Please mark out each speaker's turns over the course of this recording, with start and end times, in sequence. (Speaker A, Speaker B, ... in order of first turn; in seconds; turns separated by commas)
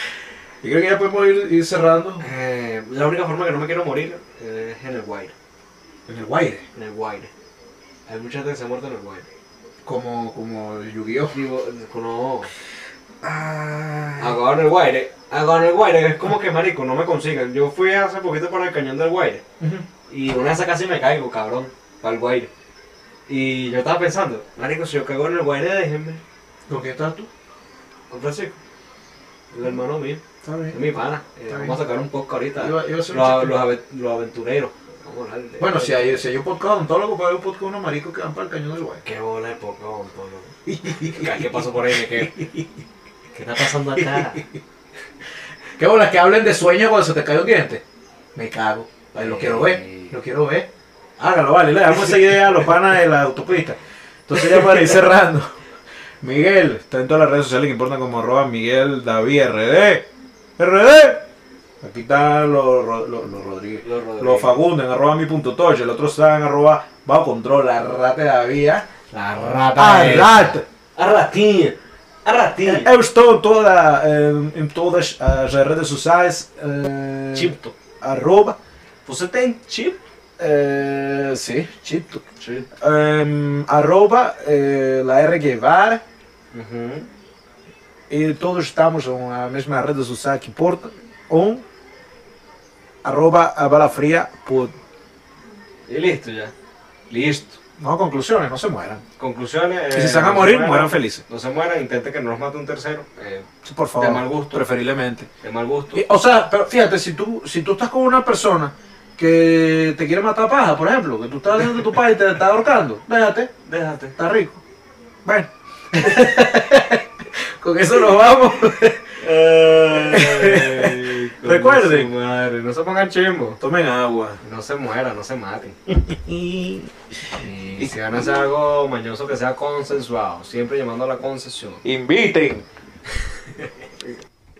Speaker A: 0.6-2.2, Speaker B: 2.2-5.3, Speaker A: 6.1-6.6, Speaker B: 6.7-7.3, Speaker B: 8.1-9.3, Speaker A: 9.8-11.4, Speaker B: 11.3-12.5, Speaker A: 13.2-14.4, Speaker B: 14.2-19.4, Speaker A: 19.6-19.9, Speaker B: 20.1-22.5, Speaker B: 23.3-26.2, Speaker A: 26.7-27.3, Speaker B: 28.1-28.6, Speaker B: 29.5-30.2, Speaker A: 30.4-30.9, Speaker B: 30.7-36.3, Speaker A: 31.5-31.8, Speaker A: 32.6-33.6, Speaker A: 35.6-39.0, Speaker B: 39.0-42.4, Speaker A: 40.6-42.7, Speaker B: 43.3-44.5, Speaker A: 43.9-44.4, Speaker A: 45.8-47.8, Speaker A: 48.3-55.5, Speaker B: 49.1-50.2, Speaker A: 56.2-60.0, Speaker A: 60.6-61.2, Speaker A: 61.8-68.8, Speaker B: 63.8-64.6, Speaker B: 69.1-72.9, Speaker A: 69.7-70.6, Speaker A: 72.6-78.6, Speaker B: 77.3-77.7, Speaker B: 79.0-80.0, Speaker A: 80.4-82.2, Speaker B: 82.4-82.7, Speaker A: 82.8-86.0, Speaker B: 86.5-87.1, Speaker A: 88.1-91.6, Speaker A: 93.0-94.7, Speaker B: 95.9-96.5, Speaker B: 97.1-97.6, Speaker A: 97.8-99.0, Speaker B: 99.2-104.7, Speaker A: 99.9-101.2, Speaker A: 103.6-105.3, Speaker B: 105.4-106.0, Speaker A: 105.9-113.5, Speaker B: 113.6-114.2, Speaker A: 114.2-114.6, Speaker A: 115.2-119.2, Speaker B: 116.0-116.4, Speaker B: 119.2-123.6, Speaker A: 119.8-122.1, Speaker A: 123.6-124.4, Speaker B: 124.4-125.8, Speaker A: 125.9-126.9, Speaker B: 127.4-131.8, Speaker A: 127.8-128.3, Speaker A: 131.8-132.6